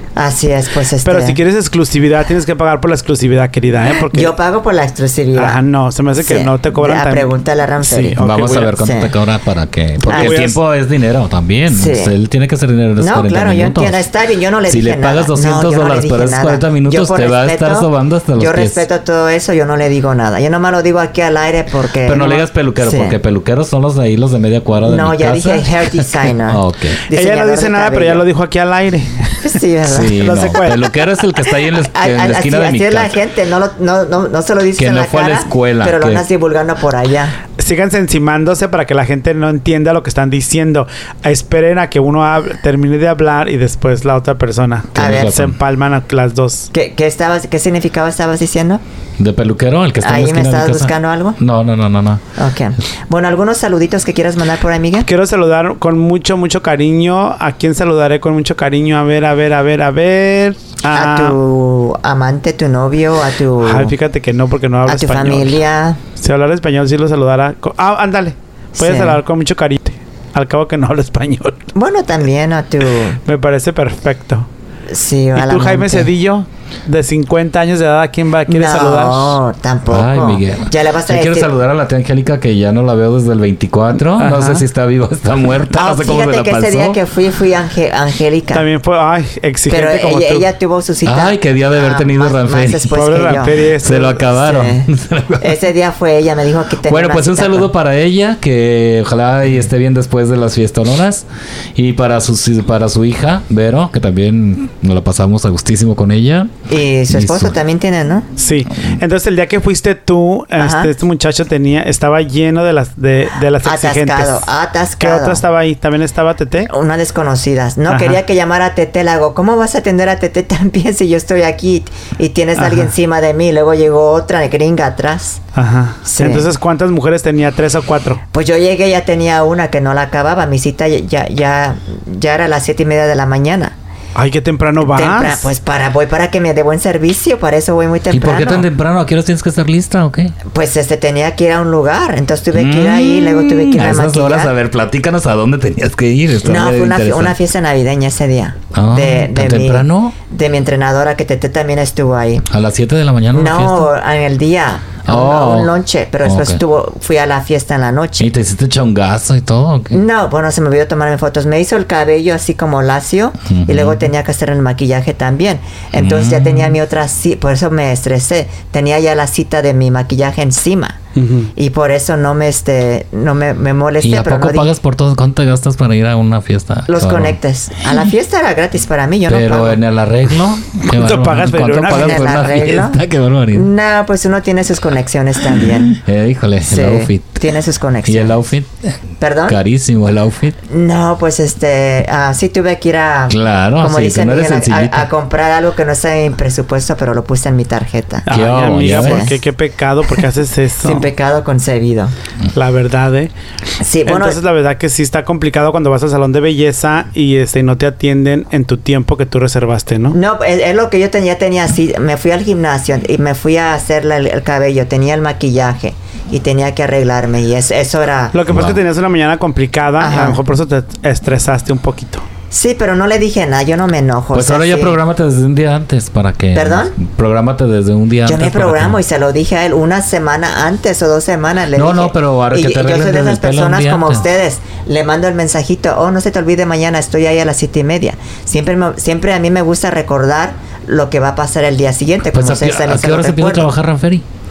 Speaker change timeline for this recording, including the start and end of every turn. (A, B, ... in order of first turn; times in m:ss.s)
0:00.2-0:01.4 A
0:01.0-0:04.3 B
0:04.1-0:05.6 A
0:05.4-0:08.7 B
0:06.2-0:08.2 A
0:08.2-0:14.0 C
0:08.8-0:09.1 A
0:10.0-0:10.6 B
0:10.1-0:10.4 A
0:11.7-0:12.1 A
0:13.0-0:23.2 A
0:14.7-0:18.8 C
0:22.0-0:27.0 C
0:24.8-0:28.2 A
0:27.1-0:29.4 B
0:29.4-0:30.2 A
0:29.8-0:33.2 C
0:30.1-0:30.9 B
0:31.5-0:37.4 A
0:34.8-0:36.2 C
0:37.6-0:46.7 B
0:44.9-0:45.3 A
0:44.9-0:45.6 C
0:46.7-0:48.8 A
0:49.2-0:52.2 C
0:50.0-0:51.4 A
0:52.4-0:55.1 A
0:55.0-1:01.4 B
1:00.9-1:03.9 A
1:03.6-1:05.6 B
1:04.8-1:06.0 A
1:06.1-1:11.6 B
1:08.8-1:09.2 A
1:11.7-1:13.2 A
1:13.2-1:14.5 B
1:14.9-1:16.1 A
1:15.3-1:19.4 B
1:18.5-1:21.5 A
1:19.9-1:27.0 C
1:24.2-1:24.6 B
1:25.7-1:28.6 A
1:28.5-1:30.4 B
1:29.7-1:37.7 A
1:31.0-1:32.9 C
1:32.9-1:34.2 B
1:33.8-1:35.6 C
1:36.8-1:46.5 C
1:46.7-1:48.3 A
1:47.1-1:47.6 C
1:48.4-1:54.5 B
1:50.6-1:50.9 A
1:53.6-1:55.4 A
1:55.0-1:56.7 B
1:56.7-2:05.4 A
1:57.9-1:58.2 B
2:02.6-2:02.9 B
2:05.6-2:08.2 B
2:06.0-2:06.4 A
2:08.3-2:13.7 A
2:14.1-2:15.5 B
2:14.8-2:18.6 A
2:18.1-2:20.4 C
2:20.5-2:24.5 A
2:22.5-2:27.4 C
2:26.4-2:32.4 A
2:28.7-2:30.1 C
2:32.5-2:33.9 C
2:33.3-2:38.3 A
2:35.0-2:35.7 C
2:36.2-2:36.6 C
2:38.2-2:40.0 C
2:39.9-2:51.0 A
2:43.5-2:44.1 C
2:46.0-2:46.8 C
2:51.2-2:51.5 B
2:51.6-2:54.7 A
2:54.0-2:57.4 C
2:56.9-2:59.8 A
2:59.3-3:03.7 C
3:00.8-3:02.7 B
3:01.8-3:03.0 A
3:03.5-3:06.0 A
3:05.5-3:07.4 C
3:06.6-3:08.4 A
3:08.0-3:10.6 C
3:09.2-3:09.6 A
3:10.7-3:19.4 A
3:13.3-3:15.1 C
3:18.3-3:21.1 B
3:18.3-3:19.2 C
3:20.8-3:22.1 A
3:22.5-3:23.3 B
3:23.8-3:24.4 A
3:24.0-3:30.2 B
3:30.1-3:38.4 A
3:38.3-3:42.2 B
3:38.5-3:38.8 C
3:40.0-3:40.4 A
3:42.5-3:45.0 A
3:44.3-3:49.0 C
3:46.5-3:46.9 A
3:48.2-4:03.7 A
3:51.8-3:54.2 C
4:02.3-4:04.2 C